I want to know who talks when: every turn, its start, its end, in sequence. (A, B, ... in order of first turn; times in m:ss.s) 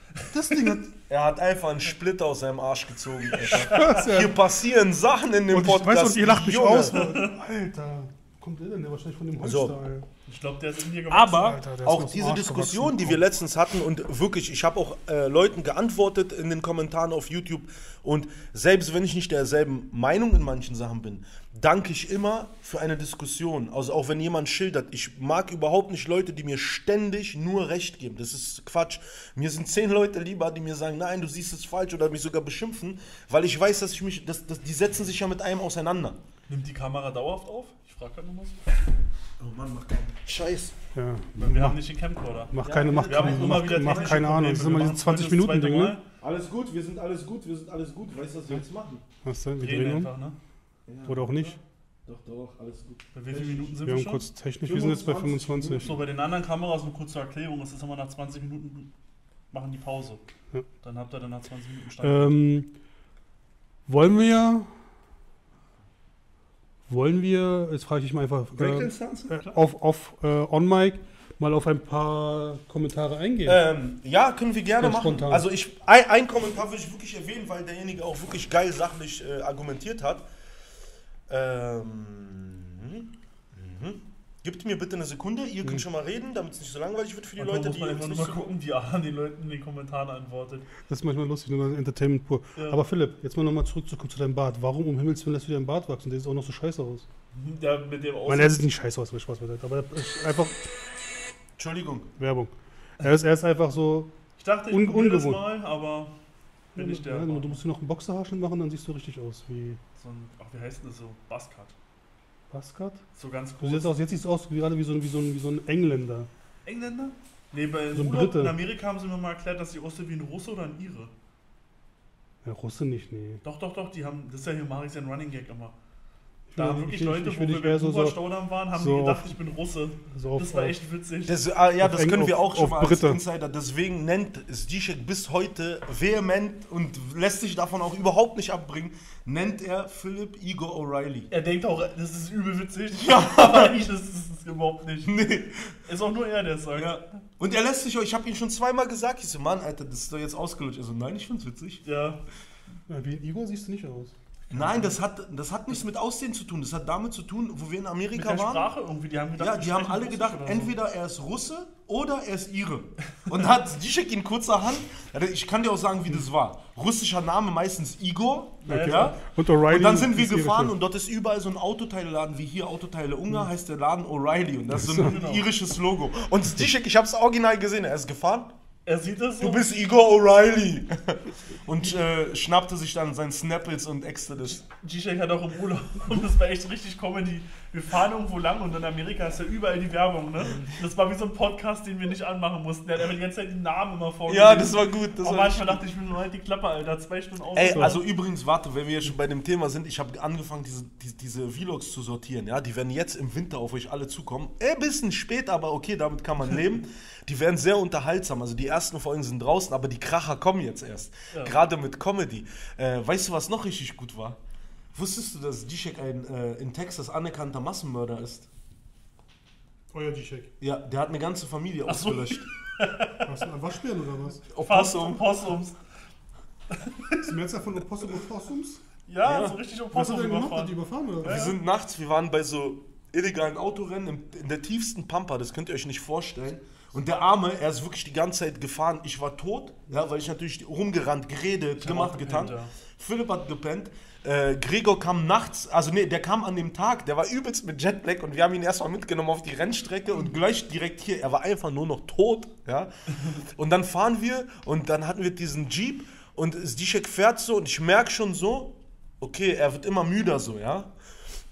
0:00.3-0:00.9 A
0:01.1-0:06.9 B
0:03.4-0:04.0 C
0:03.5-0:04.4 A
0:05.5-0:10.0 A
0:06.9-0:07.3 C
0:09.4-0:09.8 B
0:10.3-0:11.5 C
0:11.1-0:36.2 B
0:11.3-0:13.2 A
0:36.5-0:38.6 C
0:39.4-0:40.8 B
0:40.9-0:41.8 A
0:41.4-0:46.0 C
0:42.5-0:46.0 A
0:42.6-0:44.3 B
0:46.2-0:49.0 B
0:49.2-0:50.1 A
0:49.6-0:50.4 C
0:50.9-0:53.8 B
0:51.0-0:51.6 A
0:53.1-0:54.2 C
0:53.8-0:55.9 A
0:54.6-0:56.0 B
0:55.8-0:58.9 C
0:59.5-1:00.2 C
1:00.8-1:02.3 C
1:02.0-1:02.7 A
1:03.9-1:04.7 A
1:06.9-1:13.6 A
1:08.6-1:09.4 B
1:13.4-1:20.3 B
1:14.8-1:15.4 A
1:21.3-1:28.5 B
1:27.4-1:30.7 C
1:30.9-1:37.0 A
1:37.3-1:38.6 C
1:38.3-1:40.6 A
1:41.6-1:42.1 B
1:42.2-1:44.1 A
1:44.4-1:46.1 C
1:44.7-1:45.4 A
1:46.7-1:47.6 C
1:46.7-1:49.8 A
1:50.0-1:51.7 C
1:52.5-1:53.0 A
1:53.2-1:53.9 C
1:53.6-1:56.3 A
1:56.6-2:01.1 C
1:57.9-1:58.5 A
2:02.4-2:03.4 A
2:03.4-2:05.7 C
2:06.5-2:08.2 A
2:06.6-2:11.4 C
2:08.7-2:09.3 A
2:10.1-2:10.7 A
2:11.3-2:21.3 B
2:11.8-2:13.2 A
2:21.3-2:25.2 C
2:22.9-2:23.8 B
2:25.0-2:25.8 B
2:25.8-2:27.0 C
2:26.7-2:31.8 B
2:31.8-2:32.2 C
2:32.9-2:34.1 A
2:34.5-2:35.0 C
2:34.5-2:38.7 B
2:38.1-2:40.7 C
2:39.4-2:58.5 B
2:48.6-2:49.2 C
2:48.7-2:50.7 A
2:54.7-2:55.1 A
2:55.0-2:55.4 C
2:58.8-2:59.6 C
2:59.4-3:04.6 B
3:04.7-3:18.0 C
3:14.3-3:15.8 B
3:17.6-3:34.4 B
3:34.9-3:38.5 B
3:39.9-3:40.5 A
3:40.6-3:42.5 B
3:41.9-3:43.3 C
3:43.2-3:44.4 A
3:44.5-3:45.2 B
3:44.6-3:45.8 C
3:46.7-3:47.3 C
3:47.2-3:48.8 A
3:49.1-3:51.6 C
3:49.2-3:49.6 B
3:49.9-3:51.4 A
3:51.2-4:20.9 B
4:01.8-4:02.7 C